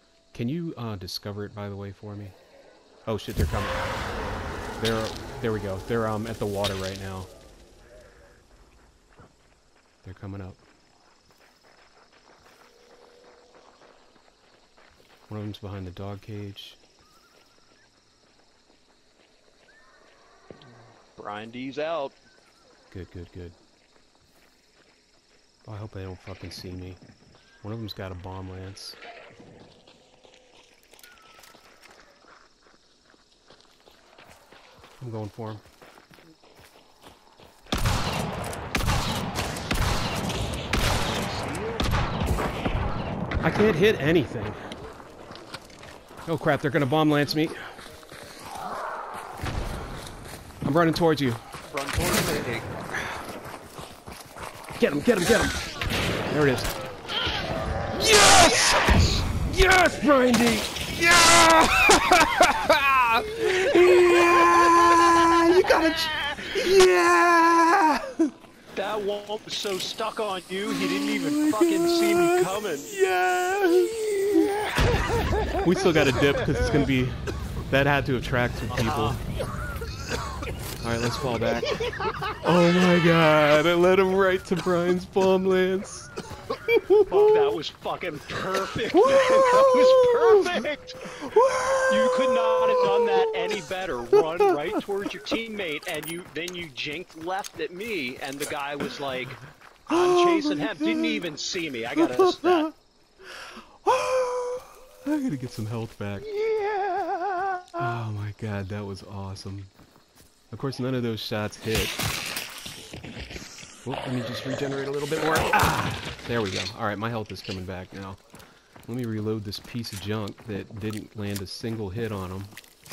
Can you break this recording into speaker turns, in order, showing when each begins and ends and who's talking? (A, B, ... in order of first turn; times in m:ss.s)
0:00.3-0:02.4 A
0:03.0-0:04.0 A
0:04.8-0:07.3 A
0:10.0-0:10.6 A
0:15.3-0:16.8 A
0:20.6-0:22.2 B
0:22.9-0:23.6 A
0:25.7-0:27.0 A
0:27.6-0:29.0 A
0:35.0-0:35.6 A
0:40.9-0:41.9 B
0:43.4-0:44.6 A
0:46.2-0:47.6 A
0:50.6-0:51.4 A
0:51.7-0:52.7 B
0:54.8-0:55.6 A
0:56.3-0:56.7 A
0:57.9-1:08.3 A
0:58.6-0:59.0 B
1:04.4-1:06.7 B
1:08.7-1:12.9 B
1:10.7-1:14.5 A
1:14.1-1:16.8 B
1:15.6-1:17.2 A
1:17.7-1:19.2 A
1:18.7-1:19.2 B
1:20.8-1:21.7 A
1:22.4-1:26.1 A
1:26.7-1:27.5 A
1:27.1-1:31.0 B
1:28.9-1:34.5 A
1:31.9-1:42.7 B
1:39.9-1:41.2 A
1:42.0-1:42.7 A
1:43.4-1:46.3 A
1:46.4-1:47.7 B
1:47.8-1:49.7 A
1:50.5-1:52.0 A
1:53.8-1:58.2 A
1:58.8-2:02.5 A